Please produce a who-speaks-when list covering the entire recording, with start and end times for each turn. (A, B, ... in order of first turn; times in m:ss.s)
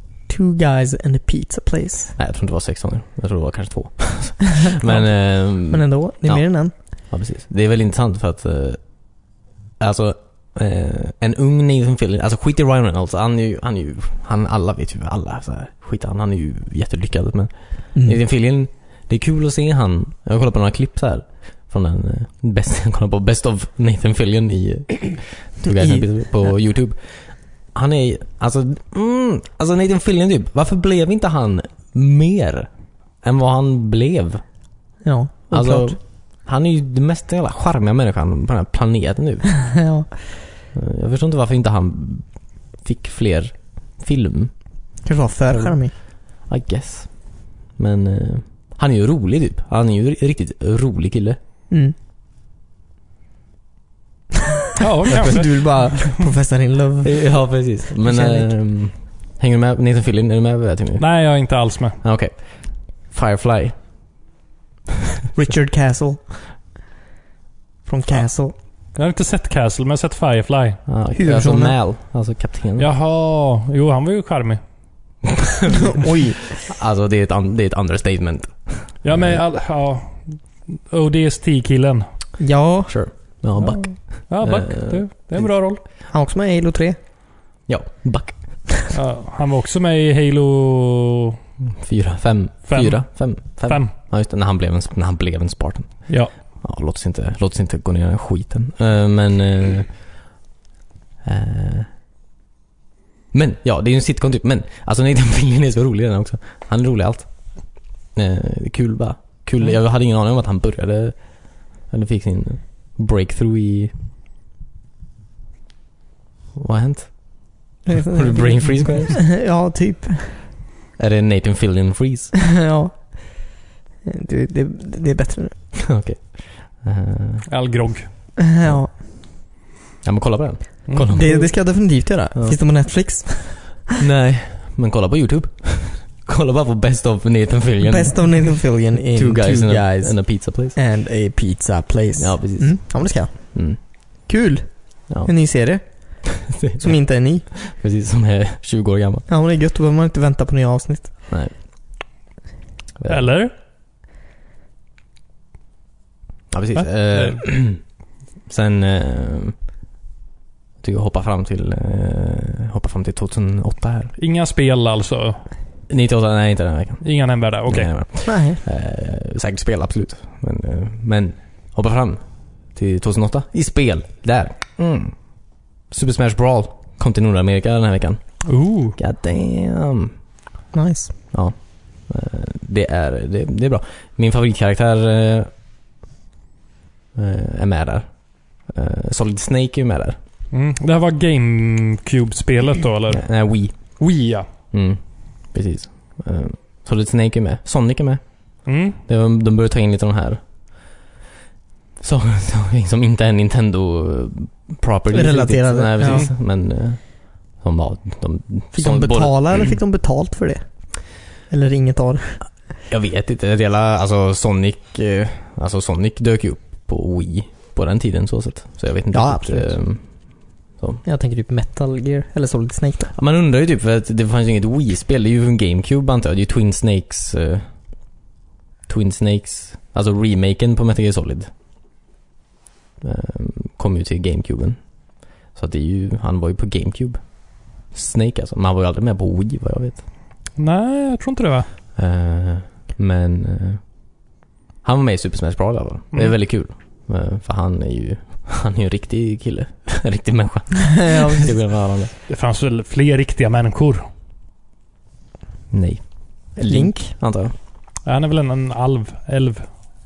0:00.3-0:02.2 A
0:02.2-0:08.9 B
0:04.7-0:06.7 A
0:09.8-0:32.7 B
0:25.7-0:26.0 A
0:33.2-0:34.4 B
0:35.0-0:36.0 A
0:35.5-0:39.5 B
0:39.7-0:40.1 A
0:40.7-0:44.5 B
0:45.0-0:45.9 A
0:46.4-0:51.4 B
0:54.8-0:56.1 C
0:55.1-0:57.3 A
0:55.1-0:55.4 B
0:57.0-1:01.1 B
0:58.0-0:58.5 A
1:01.0-1:02.0 C
1:02.0-1:03.8 B
1:05.4-1:06.2 A
1:07.8-1:08.5 A
1:09.0-1:10.8 C
1:10.9-1:12.9 B
1:11.2-1:11.8 A
1:12.8-1:14.6 C
1:15.6-1:16.0 B
1:15.7-1:16.4 A
1:16.6-1:19.4 B
1:19.0-1:22.1 C
1:22.4-1:22.9 A
1:22.9-1:25.5 B
1:23.6-1:25.8 C
1:26.1-1:27.0 A
1:27.7-1:28.6 B
1:28.9-1:31.4 C
1:31.8-1:40.1 B
1:32.7-1:33.9 C
1:41.2-1:41.9 B
1:43.3-1:53.9 B
1:56.6-1:59.2 B
1:57.9-2:00.4 A
2:01.0-2:02.3 B
2:02.5-2:03.5 A
2:04.1-2:05.5 A
2:05.8-2:07.5 B
2:07.5-2:08.1 C
2:08.4-2:08.9 A
2:10.0-2:11.6 B
2:10.9-2:11.4 C
2:11.1-2:13.8 A
2:14.0-2:18.6 B
2:17.8-2:27.5 A
2:19.1-2:20.8 B
2:22.2-2:23.8 B
2:26.5-2:29.3 B
2:29.3-2:31.1 A
2:33.0-2:33.3 B
2:33.1-2:33.5 C
2:36.5-2:37.8 B
2:36.8-2:37.4 C
2:38.5-2:39.6 B
2:40.8-2:44.1 B
2:44.2-2:45.4 C
2:45.9-2:47.1 B
2:47.0-2:47.9 C
2:47.7-2:55.2 B
2:48.2-2:48.6 A
2:55.9-2:58.4 B
2:58.5-2:59.0 C
2:59.0-3:00.1 B
3:00.7-3:01.1 A
3:01.3-3:05.5 B
3:07.2-3:10.2 B
3:10.5-3:14.5 C
3:13.1-3:14.0 B
3:14.7-3:20.4 B
3:18.6-3:19.0 C
3:22.0-3:29.8 B
3:25.1-3:26.2 A
3:28.7-3:30.6 A
3:31.4-3:32.4 A
3:32.9-3:40.2 B
3:39.1-3:39.8 A
3:40.8-3:41.0 B
3:41.0-3:43.1 A
3:43.1-3:47.7 B
3:48.9-3:51.5 B
3:53.0-4:00.0 B
4:00.6-4:01.7 C
4:02.0-4:03.8 B
4:04.8-4:12.1 B
4:11.0-4:11.5 A
4:12.3-4:14.1 C
4:15.7-4:17.5 B
4:16.7-4:17.1 A
4:18.0-4:19.7 C